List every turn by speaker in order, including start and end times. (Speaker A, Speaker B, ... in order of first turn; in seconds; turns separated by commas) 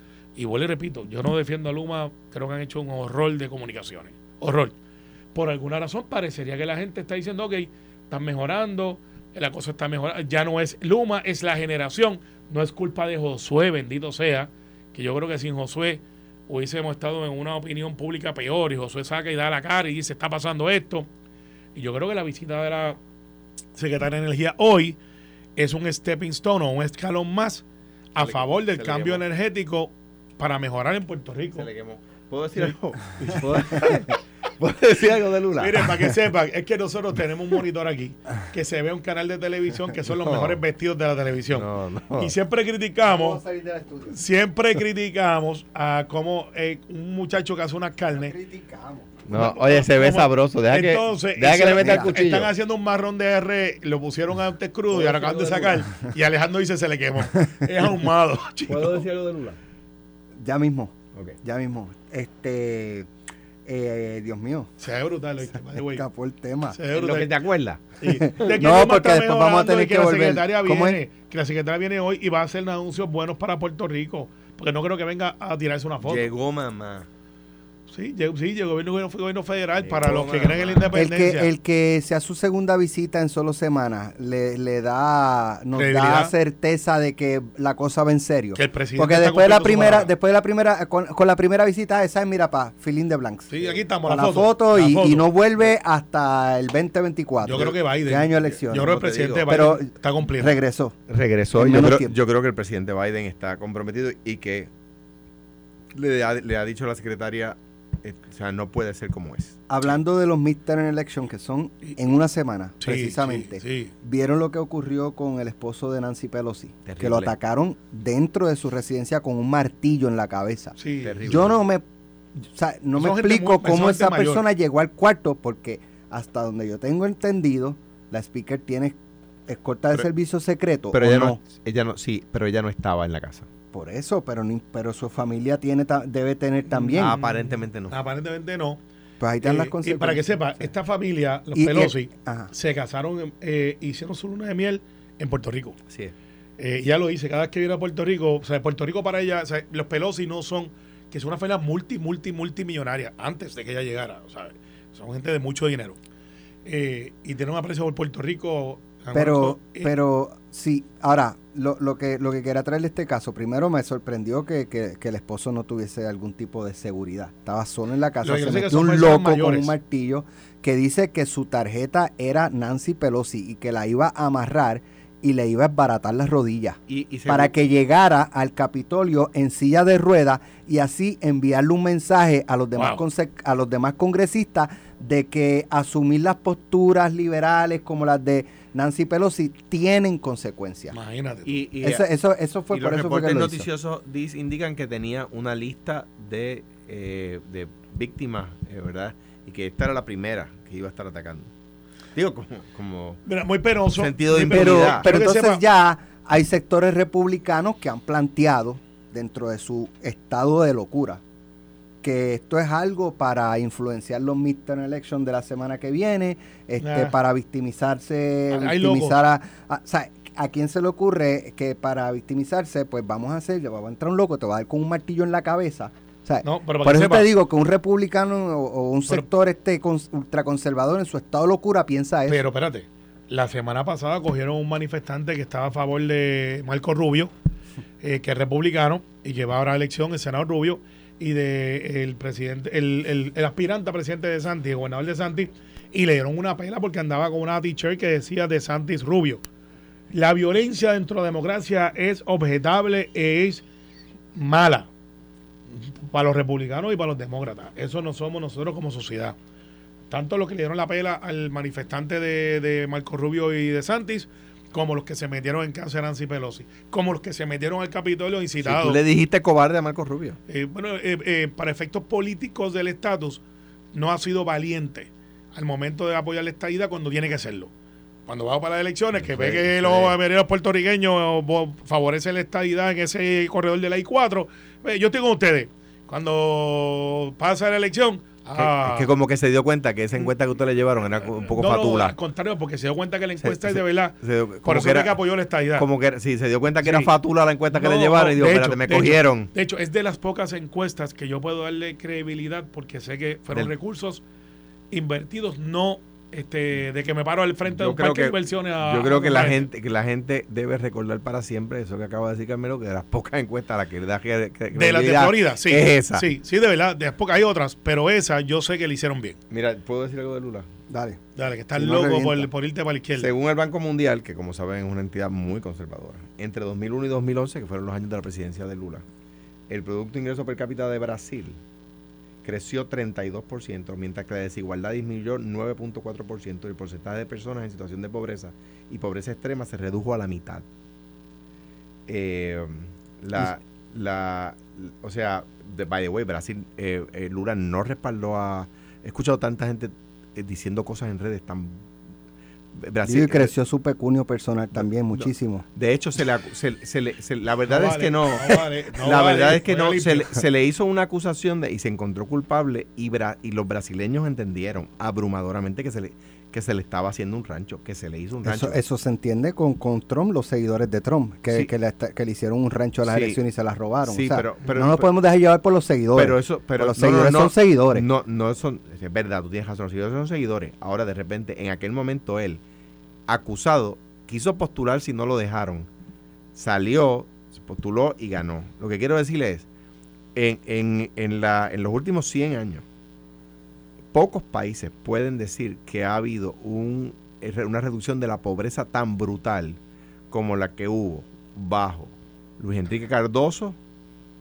Speaker A: 0.3-4.7, Speaker A: 5.3-21.1, Speaker A: 21.7-23.0, Speaker A: 23.7-25.0, Speaker A: 25.6-27.6, Speaker A: 28.1-31.6, Speaker B: 28.2-29.2, Speaker B: 31.5-36.1, Speaker A: 32.6-33.9, Speaker A: 35.6-43.4, Speaker B: 40.1-40.6, Speaker B: 41.5-42.3, Speaker C: 43.0-44.1, Speaker A: 44.1-48.3, Speaker C: 48.1-49.1, Speaker B: 49.3-52.5, Speaker A: 49.3-59.0, Speaker C: 51.7-52.2, Speaker B: 54.9-55.9, Speaker B: 58.7-59.6, Speaker C: 60.4-63.1, Speaker C: 63.6-64.7, Speaker A: 64.8-66.0, Speaker C: 65.8-66.8, Speaker A: 66.7-67.3, Speaker B: 66.9-67.8, Speaker A: 68.0-76.3, Speaker C: 68.1-71.0, Speaker B: 76.0-77.1, Speaker A: 77.9-81.5, Speaker B: 79.8-80.9, Speaker C: 80.9-98.9, Speaker A: 85.7-86.3, Speaker A: 88.5-90.1, Speaker A: 93.5-95.4, Speaker A: 97.4-100.6, Speaker B: 98.7-99.6, Speaker C: 99.5-101.0, Speaker B: 101.1-104.7, Speaker C: 101.5-102.2, Speaker B: 105.9-109.6, Speaker C: 109.7-121.8, Speaker A: 112.8-113.9, Speaker B: 116.8-117.3, Speaker A: 120.8-121.4, Speaker B: 121.0-121.6, Speaker C: 122.5-131.4, Speaker A: 123.0-124.4, Speaker B: 130.9-133.5, Speaker C: 133.7-137.1, Speaker B: 136.9-137.9, Speaker A: 137.0-137.4, Speaker A: 137.9-138.8, Speaker C: 139.2-140.7, Speaker A: 139.4-145.8, Speaker C: 141.5-142.5, Speaker A: 146.6-156.0, Speaker A: 156.6-159.9, Speaker C: 159.1-190.9, Speaker A: 168.2-169.7, Speaker B: 176.9-177.5, Speaker A: 190.9-191.6, Speaker B: 191.4-192.0, Speaker C: 191.8-193.7, Speaker B: 192.7-201.5, Speaker B: 202.1-203.2, Speaker A: 203.2-205.6, Speaker B: 203.9-205.1, Speaker C: 204.4-211.2, Speaker C: 212.0-232.4, Speaker A: 216.8-217.1, Speaker A: 218.5-219.2, Speaker A: 226.4-227.3, Speaker A: 232.3-237.3, Speaker A: 238.0-249.4, Speaker A: 250.1-253.6, Speaker A: 254.3-254.9, Speaker A: 255.8-259.3, Speaker A: 260.1-269.0, Speaker B: 268.6-270.4, Speaker A: 270.5-273.4, Speaker A: 273.9-277.7, Speaker A: 278.3-289.1, Speaker B: 279.1-280.1, Speaker B: 288.6-292.1, Speaker A: 291.5-295.9, Speaker B: 293.4-295.1, Speaker B: 295.8-299.5, Speaker A: 296.8-297.1, Speaker A: 297.7-304.2, Speaker A: 304.9-309.7, Speaker B: 307.7-316.3, Speaker A: 314.7-319.4, Speaker B: 319.5-320.7, Speaker C: 320.9-321.2, Speaker A: 321.4-323.3, Speaker C: 321.7-322.5, Speaker B: 323.2-329.0, Speaker B: 329.7-331.6, Speaker B: 332.4-340.6, Speaker B: 342.1-351.9, Speaker B: 352.8-353.5, Speaker C: 353.0-355.6, Speaker B: 354.8-368.8, Speaker A: 357.7-360.4, Speaker C: 368.4-378.0, Speaker B: 373.1-373.4, Speaker B: 374.1-375.1, Speaker B: 376.1-382.6, Speaker B: 383.3-385.9, Speaker B: 386.5-389.6, Speaker B: 390.3-392.8, Speaker B: 394.1-399.8, Speaker B: 400.3-403.8